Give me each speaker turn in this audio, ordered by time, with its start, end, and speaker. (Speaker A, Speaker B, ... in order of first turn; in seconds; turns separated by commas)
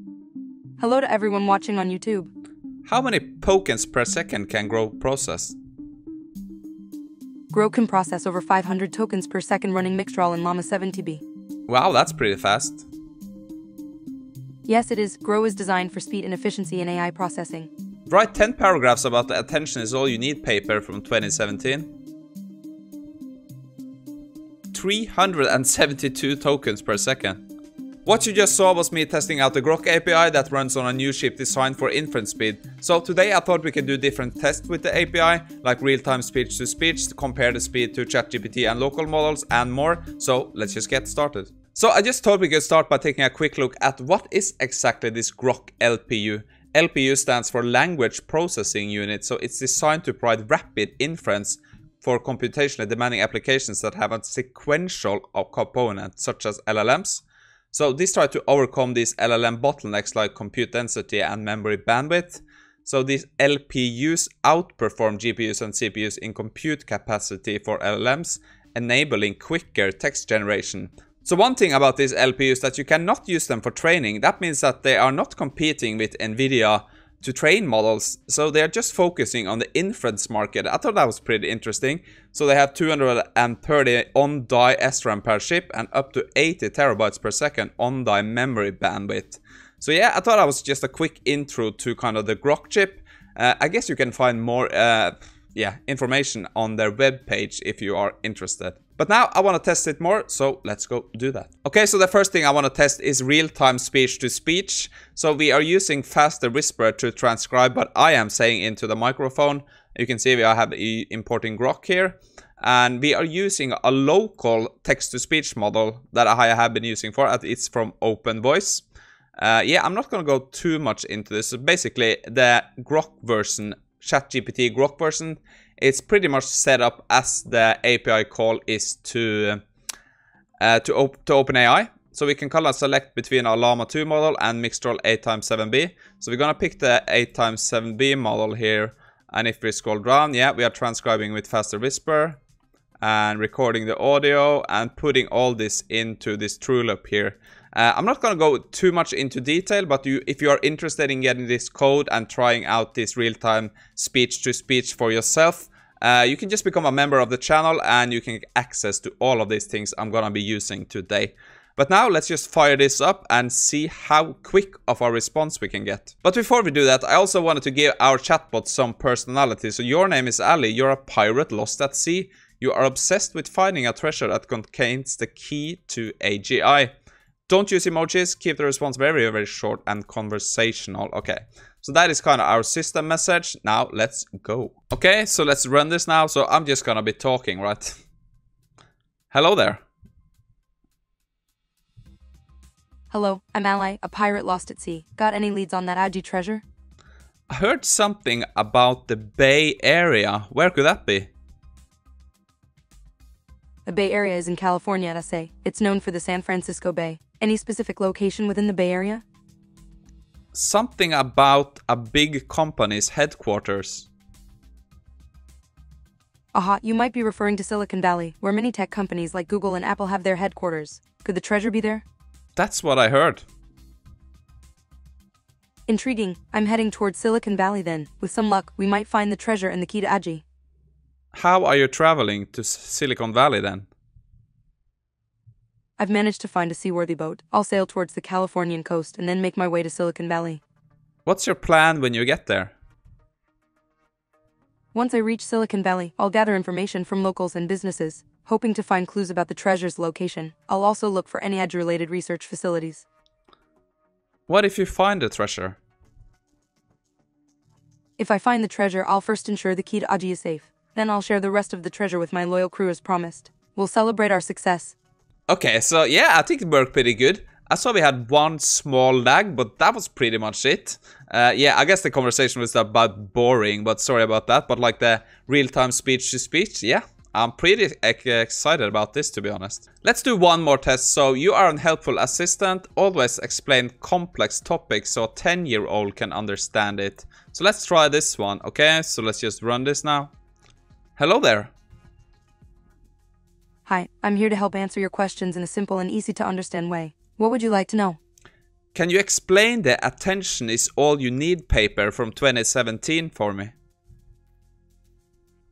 Speaker A: 0.8-2.3, Speaker B: 2.9-5.5, Speaker A: 7.5-11.2, Speaker B: 11.7-12.8, Speaker A: 14.7-17.7, Speaker B: 18.1-21.9, Speaker B: 24.7-27.4, Speaker B: 28.1-118.8, Speaker B: 119.4-129.6, Speaker B: 130.6-142.4, Speaker B: 143.0-176.9, Speaker B: 177.5-187.9, Speaker B: 189.3-189.8, Speaker A: 193.1-196.6, Speaker B: 197.5-201.3, Speaker A: 203.8-209.2, Speaker B: 210.5-214.1, Speaker A: 216.5-222.0, Speaker B: 222.6-223.4, Speaker A: 225.9-230.4, Speaker B: 231.3-233.8, Speaker A: 236.0-240.6, Speaker B: 241.2-242.7, Speaker A: 244.9-253.0, Speaker B: 254.5-255.8, Speaker A: 258.2-264.9, Speaker B: 265.5-290.3, Speaker B: 291.2-291.7, Speaker A: 293.9-298.2, Speaker B: 298.9-303.7